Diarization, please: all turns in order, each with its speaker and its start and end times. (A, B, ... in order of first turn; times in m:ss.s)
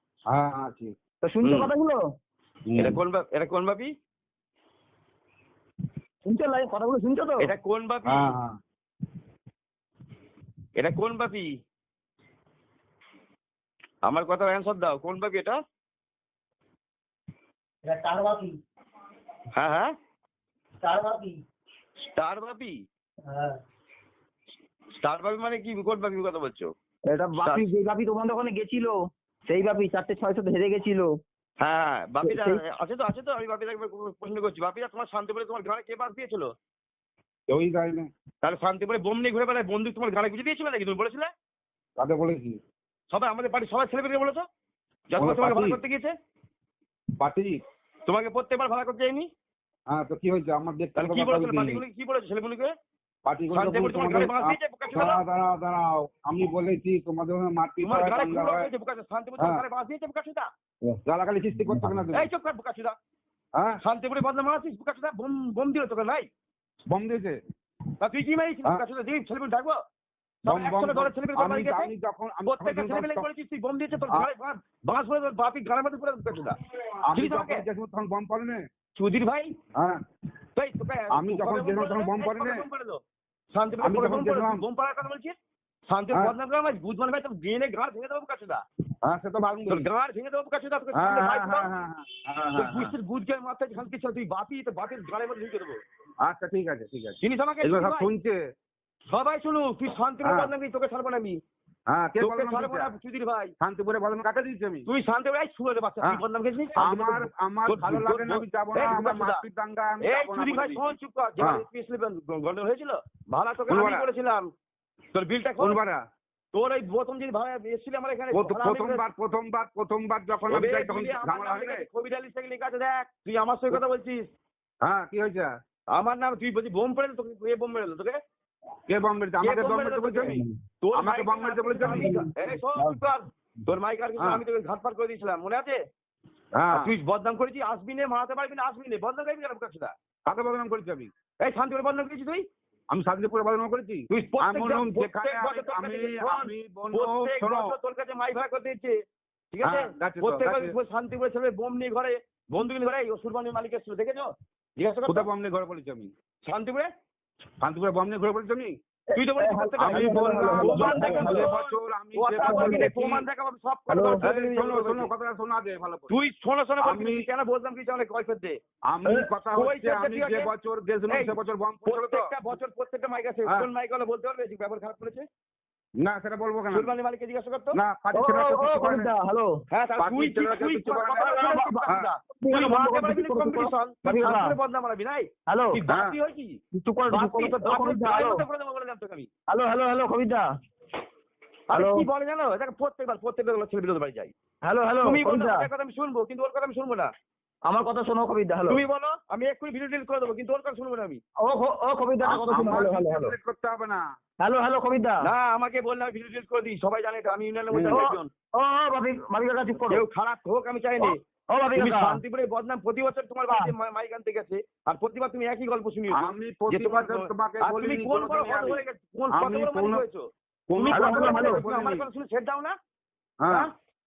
0:00.3-0:00.9 A
0:01.2-0:02.0 B
0:01.4-0:01.7 C
0:02.7-0:03.0 A
0:02.8-0:03.9 C
0:06.2-0:07.5 B
0:07.4-0:08.3 C
0:08.1-0:08.6 A
0:10.8-0:11.4 C
0:14.0-0:15.6 C
0:17.8-0:18.6 B
0:19.5-0:19.9 C
0:20.8-0:21.4 B
0:22.0-0:22.7 C
0:23.3-0:23.6 B
0:25.0-0:26.7 C
0:27.1-0:31.2 B
0:27.4-0:27.6 C
0:31.6-0:36.5 C
0:32.2-0:32.6 B
0:37.5-0:38.1 A
0:38.4-0:41.3 C
0:42.0-0:42.6 A
0:43.1-0:44.4 C
0:45.1-0:46.1 C
0:45.2-0:45.8 A
0:47.2-0:47.6 A
0:48.1-0:49.3 C
0:49.9-0:51.8 A
0:51.0-0:52.7 C
0:53.2-0:58.7 A
0:53.5-0:55.2 C
0:57.8-1:00.5 C
0:59.4-0:59.6 A
1:01.0-1:02.3 A
1:01.7-1:02.0 B
1:02.1-1:03.0 C
1:03.8-1:06.2 C
1:06.9-1:07.4 A
1:08.0-1:09.8 C
1:10.4-1:11.9 C
1:10.4-1:13.3 A
1:12.4-1:16.6 C
1:17.0-1:18.6 A
1:17.1-1:17.6 C
1:18.9-1:19.5 C
1:19.7-1:20.0 A
1:20.6-1:23.0 C
1:21.1-1:22.6 A
1:23.5-1:25.3 C
1:23.8-1:24.6 A
1:25.9-1:28.6 C
1:29.0-1:29.8 A
1:29.7-1:31.7 C
1:30.9-1:32.9 A
1:32.5-1:35.8 C
1:36.2-1:38.4 A
1:37.2-1:38.1 C
1:39.1-1:41.4 C
1:40.2-1:40.5 A
1:41.9-1:42.9 A
1:42.2-1:43.5 C
1:43.6-1:44.9 A
1:44.8-1:49.4 C
1:46.8-1:51.6 A
1:50.0-1:54.5 C
1:53.7-1:54.0 A
1:55.1-1:55.8 C
1:55.6-1:56.0 A
1:56.5-1:59.0 C
1:58.3-2:01.8 A
2:00.5-2:04.2 C
2:04.8-2:05.5 A
2:05.9-2:08.2 C
2:08.9-2:12.3 A
2:09.4-2:15.8 C
2:11.8-2:12.2 B
2:16.6-2:16.9 A
2:16.7-2:19.9 C
2:20.3-2:21.1 A
2:21.4-2:22.4 C
2:22.9-2:27.7 A
2:24.1-2:28.9 C
2:29.5-2:35.3 C
2:29.6-2:30.7 A
2:35.1-2:36.1 A
2:36.4-2:36.9 C
2:37.6-2:38.7 A
2:39.1-2:41.4 B
2:39.1-2:45.1 C
2:39.8-2:43.2 A
2:42.4-2:42.9 B
2:43.9-2:44.2 B
2:44.2-2:46.1 A
2:46.1-2:48.6 C
2:46.8-2:47.3 A
2:48.9-2:52.3 A
2:49.6-2:50.5 C
2:51.1-2:51.3 C
2:51.8-2:55.2 C
2:56.0-2:56.9 A
2:56.7-2:57.8 C
2:57.7-2:59.1 A
2:58.1-2:59.6 B
2:59.7-3:09.3 C
3:00.0-3:02.1 A
3:01.1-3:01.8 B
3:02.4-3:04.5 B
3:05.5-3:05.8 B
3:05.9-3:06.2 A
3:06.7-3:08.4 B
3:09.5-3:10.5 B
3:11.7-3:14.3 C
3:11.7-3:12.0 B
3:14.6-3:15.6 B
3:15.0-3:17.1 C
3:17.7-3:18.8 B
3:18.7-3:21.2 C
3:21.4-3:23.3 B
3:22.2-3:24.0 A
3:24.4-3:25.2 B
3:25.2-3:28.3 C
3:27.7-3:28.0 A
3:27.9-3:30.0 B
3:29.9-3:31.2 C
3:31.0-3:32.2 B
3:31.7-3:42.7 C
3:36.1-3:38.8 A
3:39.3-3:40.0 A
3:40.7-3:42.0 A
3:40.9-3:41.6 B
3:43.4-3:43.7 A